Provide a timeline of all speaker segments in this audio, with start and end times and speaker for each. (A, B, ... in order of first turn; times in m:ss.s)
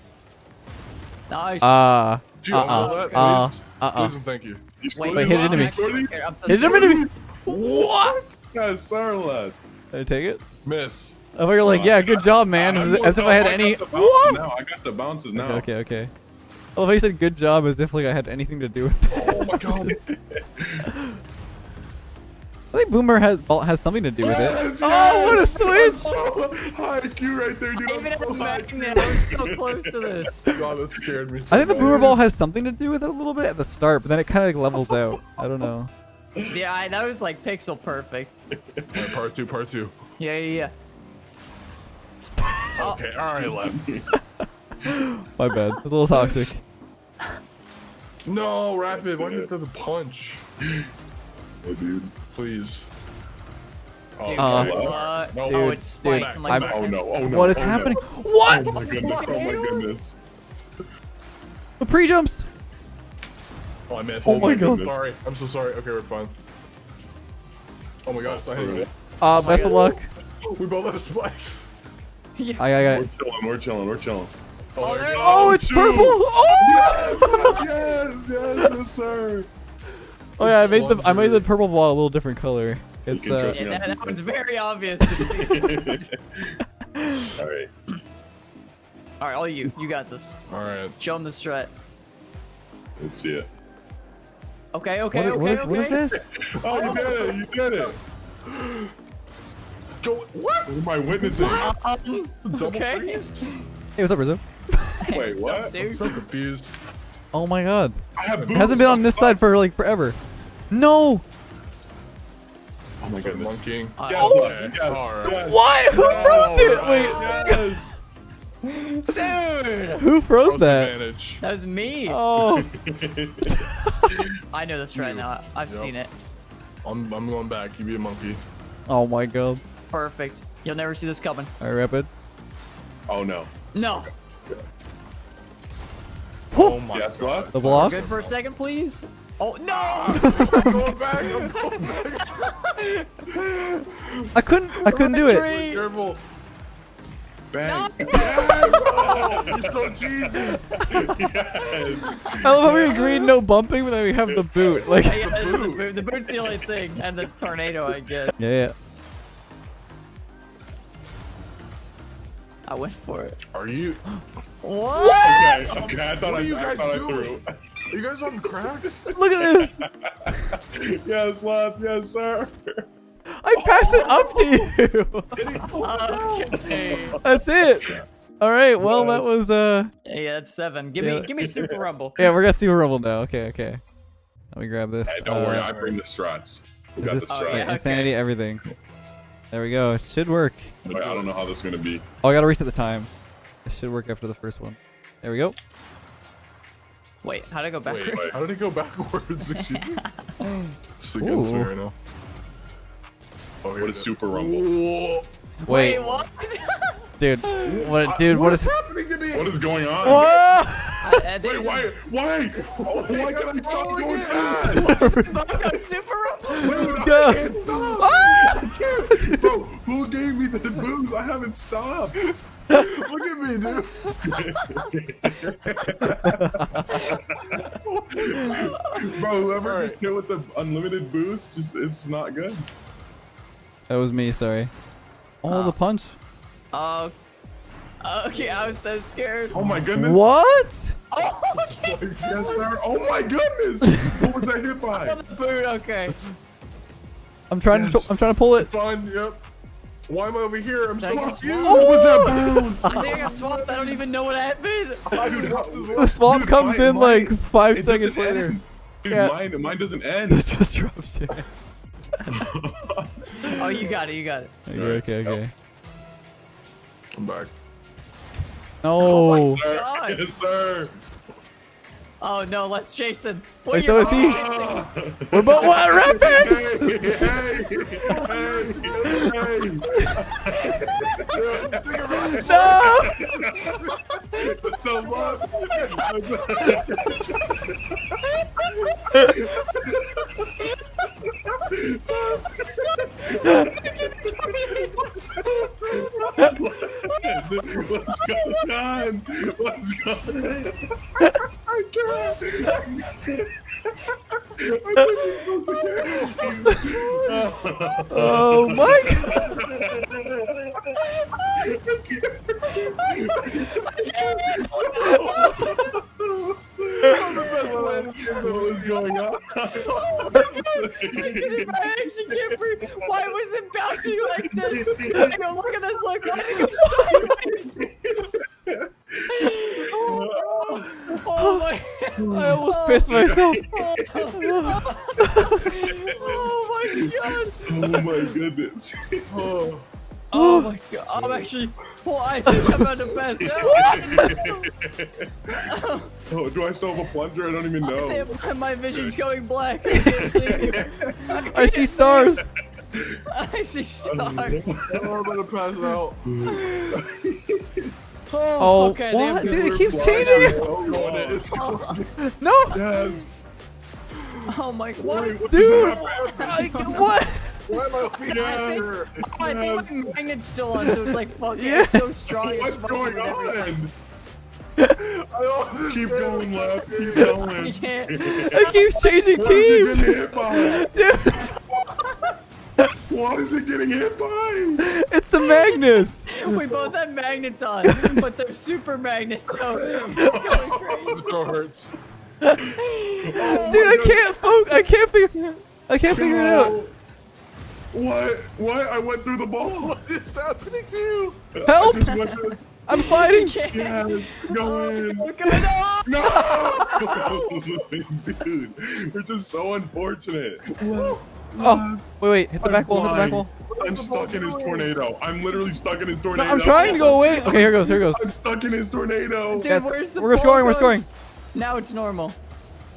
0:01.3-0:01.9 A
0:01.6-0:04.1 B
0:02.4-0:04.6 C
0:02.6-0:03.4 A
0:04.8-0:07.1 D
0:04.9-0:07.0 A
0:05.1-0:05.8 B
0:06.5-0:08.2 B
0:08.5-0:09.6 D
0:09.9-0:10.4 B
0:10.6-0:11.1 C
0:11.3-0:14.5 B
0:11.6-0:15.7 D
0:12.7-0:13.2 C
0:15.3-0:16.1 B
0:16.8-0:20.1 B
0:19.1-0:20.0 C
0:19.6-0:20.9 D
0:22.7-0:26.2 B
0:24.2-0:29.0 C
0:26.4-0:30.7 D
0:27.8-0:30.6 A
0:30.5-0:32.2 C
0:31.5-0:35.9 B
0:31.6-0:32.2 D
0:36.4-0:38.4 A
0:38.6-0:39.0 D
0:38.9-0:40.0 C
0:40.2-0:40.7 A
0:42.8-0:43.9 C
0:42.8-0:43.0 A
0:43.4-0:44.1 D
0:44.8-0:46.6 B
0:48.2-0:50.4 C
0:48.8-0:49.5 D
0:51.6-0:52.1 D
0:52.3-0:52.8 C
0:54.2-0:57.0 C
0:54.2-0:57.6 A
0:54.4-0:54.8 B
0:54.5-0:55.1 D
0:55.4-0:59.1 B
0:56.5-1:00.2 D
0:58.5-1:00.0 A
1:01.8-1:02.5 B
1:03.9-1:06.3 C
1:04.2-1:04.9 B
1:04.2-1:05.0 D
1:08.0-1:08.9 C
1:08.2-1:08.9 D
1:09.2-1:10.1 B
1:09.2-1:10.0 A
1:10.4-1:11.7 C
1:12.4-1:12.6 A
1:12.6-1:13.1 B
1:12.8-1:14.3 D
1:14.8-1:15.6 C
1:14.8-1:15.5 A
1:15.1-1:19.5 D
1:15.2-1:17.6 B
1:16.8-1:17.6 C
1:20.4-1:21.5 C
1:20.4-1:23.6 B
1:23.1-1:24.4 D
1:23.4-1:26.0 A
1:25.2-1:26.6 D
1:25.2-1:25.7 B
1:27.0-1:27.3 B
1:27.3-1:27.7 D
1:29.2-1:30.4 A
1:30.5-1:31.0 C
1:31.0-1:31.7 A
1:33.0-1:33.5 D
1:34.7-1:37.3 A
1:35.1-1:36.2 B
1:36.4-1:38.0 D
1:36.7-1:37.4 C
1:38.5-1:38.9 C
1:40.0-1:40.9 C
1:40.7-1:41.7 D
1:41.2-1:42.0 B
1:41.4-1:43.6 A
1:42.4-1:43.6 C
1:44.0-1:45.0 B
1:45.0-1:46.2 A
1:45.1-1:45.7 D
1:45.8-1:46.7 C
1:47.3-1:50.2 B
1:48.2-1:49.4 D
1:48.3-1:48.8 C
1:50.7-1:51.2 B
1:53.0-1:57.8 D
1:53.2-1:57.2 C
1:54.0-1:54.8 A
1:54.1-1:54.5 B
1:55.2-1:57.8 B
1:56.8-1:57.6 A
1:58.6-2:00.0 A
2:00.0-2:01.0 B
2:00.4-2:01.4 C
2:01.4-2:02.2 A
2:02.1-2:02.7 B
2:02.3-2:03.6 D
2:03.5-2:04.2 B
2:04.5-2:06.1 A
2:04.9-2:05.9 C
2:06.8-2:08.4 C
2:08.9-2:09.6 B
2:09.9-2:11.5 A
2:11.6-2:12.1 B
2:13.1-2:13.5 D
2:13.7-2:14.1 A
2:16.5-2:16.8 B
2:16.5-2:18.3 C
2:16.9-2:17.6 D
2:17.5-2:18.2 B
2:17.6-2:20.6 A
2:19.7-2:22.5 C
2:20.2-2:20.9 B
2:21.4-2:23.8 A
2:24.3-2:25.5 B
2:24.8-2:25.9 A
2:25.0-2:26.2 C
2:27.5-2:33.0 D
2:27.6-2:28.9 A
2:28.2-2:30.6 C
2:31.6-2:33.2 A
2:32.4-2:35.2 B
2:32.6-2:33.0 C
2:34.2-2:34.9 D
2:34.8-2:38.3 A
2:35.0-2:35.9 C
2:38.4-2:38.7 B
2:42.6-2:43.4 A
2:43.5-2:44.0 C
2:44.6-2:45.8 A
2:45.2-2:47.4 D
2:45.7-2:49.2 C
2:49.1-2:49.8 B
2:49.5-2:52.8 D
2:53.4-2:55.4 B
2:53.5-2:54.7 D
2:55.3-2:57.2 C
2:55.8-2:57.2 A
2:56.6-2:58.0 D
2:57.2-2:59.9 B
2:58.9-2:59.2 D
3:00.0-3:02.2 A
3:01.0-3:01.3 B
3:01.4-3:01.8 D
3:02.2-3:03.8 B
3:04.5-3:05.7 B
3:05.0-3:07.9 D
3:05.4-3:06.0 C
3:07.0-3:08.6 B
3:07.3-3:08.2 A
3:09.5-3:10.7 B
3:10.8-3:11.4 C
3:10.9-3:12.0 D
3:12.2-3:13.1 B
3:13.6-3:15.6 B
3:17.2-3:18.4 A
3:17.8-3:20.0 C
3:18.1-3:18.4 D
3:19.6-3:20.1 A
3:21.0-3:21.9 C
3:21.2-3:21.7 B
3:23.6-3:25.3 C
3:23.8-3:24.7 D
3:25.6-3:27.9 A
3:25.6-3:26.0 B
3:25.8-3:26.2 C
3:27.2-3:28.7 B
3:27.6-3:29.8 C
3:29.3-3:30.4 D
3:30.0-3:31.2 B
3:31.0-3:31.9 A
3:31.4-3:34.9 D
3:32.6-3:35.0 C
3:33.9-3:34.2 A
3:34.7-3:35.6 B
3:34.8-3:36.8 A
3:36.6-3:42.2 D
3:36.6-3:39.4 B
3:36.6-3:39.2 C
3:42.2-3:44.1 C
3:44.0-3:44.9 A
3:44.2-3:47.2 D
3:45.8-3:46.1 A
3:46.2-3:46.8 B
3:46.9-3:47.5 A
3:47.6-3:48.6 C
3:48.2-3:52.7 D
3:48.5-3:49.2 A
3:49.6-3:50.0 C
3:53.9-3:54.7 B
3:55.4-3:56.2 B
3:55.5-3:55.7 A
3:56.7-3:57.1 A
3:58.0-3:59.6 A
3:58.3-3:58.7 C
3:59.5-4:00.2 D
3:59.9-4:00.9 B
4:01.1-4:02.0 A
4:01.6-4:02.6 C
4:02.2-4:05.2 D
4:03.8-4:04.2 B
4:04.9-4:06.2 A
4:07.5-4:08.7 B
4:07.7-4:09.4 C
4:10.1-4:14.0 C
4:11.0-4:12.0 A
4:11.6-4:12.8 B
4:11.6-4:13.3 D
4:12.8-4:15.4 A
4:15.1-4:16.2 C
4:15.1-4:20.5 D
4:15.9-4:19.3 B
4:20.3-4:21.5 B
4:22.3-4:23.8 D
4:23.5-4:24.5 A
4:24.7-4:25.5 B
4:24.7-4:25.4 D
4:27.1-4:27.5 C
4:28.8-4:29.6 B
4:29.0-4:30.2 A
4:29.0-4:30.9 D
4:32.2-4:34.9 A
4:33.7-4:34.4 B
4:34.0-4:43.8 D
4:35.3-4:37.2 B
4:35.5-4:35.8 A
4:36.0-4:39.7 C
4:41.2-4:43.0 C
4:42.3-4:43.3 B
4:43.6-4:44.2 A
4:44.3-4:47.7 D
4:45.0-4:46.1 C
4:45.2-4:46.8 A
4:48.4-4:50.8 A
4:49.1-4:50.0 D
4:51.5-4:52.4 D
4:52.1-4:55.2 A
4:53.4-4:53.8 D
4:55.4-4:56.6 C
4:55.9-5:01.2 D
4:56.4-4:57.3 A
5:01.7-5:02.4 C
5:02.0-5:02.4 A
5:02.4-5:03.9 D
5:04.6-5:11.0 D
5:05.0-5:05.5 A
5:06.0-5:07.6 C
5:08.1-5:09.6 B
5:09.5-5:09.8 C
5:11.0-5:11.7 A
5:11.6-5:21.8 D
5:12.7-5:15.7 A
5:17.0-5:19.3 C
5:19.7-5:27.8 A
5:20.0-5:20.4 C
5:22.3-5:23.1 D
5:24.0-5:25.4 D
5:27.0-5:28.1 D
5:28.6-5:31.1 D
5:29.3-5:38.0 A
5:31.4-5:31.6 B
5:32.2-5:34.3 D
5:32.3-5:33.6 B
5:34.4-5:35.6 B
5:36.0-5:39.6 D
5:39.3-5:39.8 C
5:40.3-5:44.6 A
5:40.3-5:40.7 B
5:43.4-5:45.6 D
5:43.6-5:44.4 B
5:45.6-5:46.1 A
5:46.2-5:49.1 D
5:47.8-5:52.4 A
5:50.0-5:51.4 D
5:51.5-5:52.4 B
5:53.4-5:54.8 A
5:54.0-5:55.3 D
5:54.8-5:56.2 C
5:56.2-5:57.9 D
5:56.5-5:57.0 A
5:58.3-6:00.7 A
5:58.6-6:00.6 B
5:59.4-6:01.6 D
6:00.6-6:02.0 C
6:01.5-6:02.0 A
6:02.2-6:02.8 B
6:02.7-6:03.3 D
6:04.5-6:05.6 A
6:05.0-6:06.9 D
6:05.5-6:07.6 B
6:05.6-6:09.2 C
6:06.2-6:06.7 A
6:08.3-6:10.2 D
6:08.3-6:13.8 A
6:11.5-6:12.1 B
6:12.4-6:13.9 D
6:15.0-6:17.4 C
6:15.8-6:18.7 D
6:17.2-6:18.9 A
6:18.5-6:21.5 B
6:19.3-6:20.9 D
6:21.2-6:22.3 A
6:23.1-6:24.8 D
6:24.8-6:26.4 B
6:25.4-6:31.3 A
6:27.8-6:28.1 B
6:29.7-6:31.2 D
6:30.5-6:31.9 C
6:32.8-6:33.9 A
6:33.3-6:34.3 D
6:33.6-6:36.8 B
6:36.0-6:36.9 D
6:37.9-6:40.0 D
6:39.8-6:41.4 C
6:41.5-6:43.0 D
6:41.6-6:42.1 B
6:41.9-6:47.6 A
6:42.8-6:43.6 B
6:43.7-6:45.3 D
6:46.0-6:52.0 D
6:47.1-6:47.4 C
6:51.6-6:53.5 B
6:52.6-6:59.7 D
6:53.7-6:55.0 C
6:56.3-6:58.3 B
6:56.7-6:57.2 A
6:59.5-7:01.0 A
6:59.6-7:01.0 B
7:01.5-7:02.4 A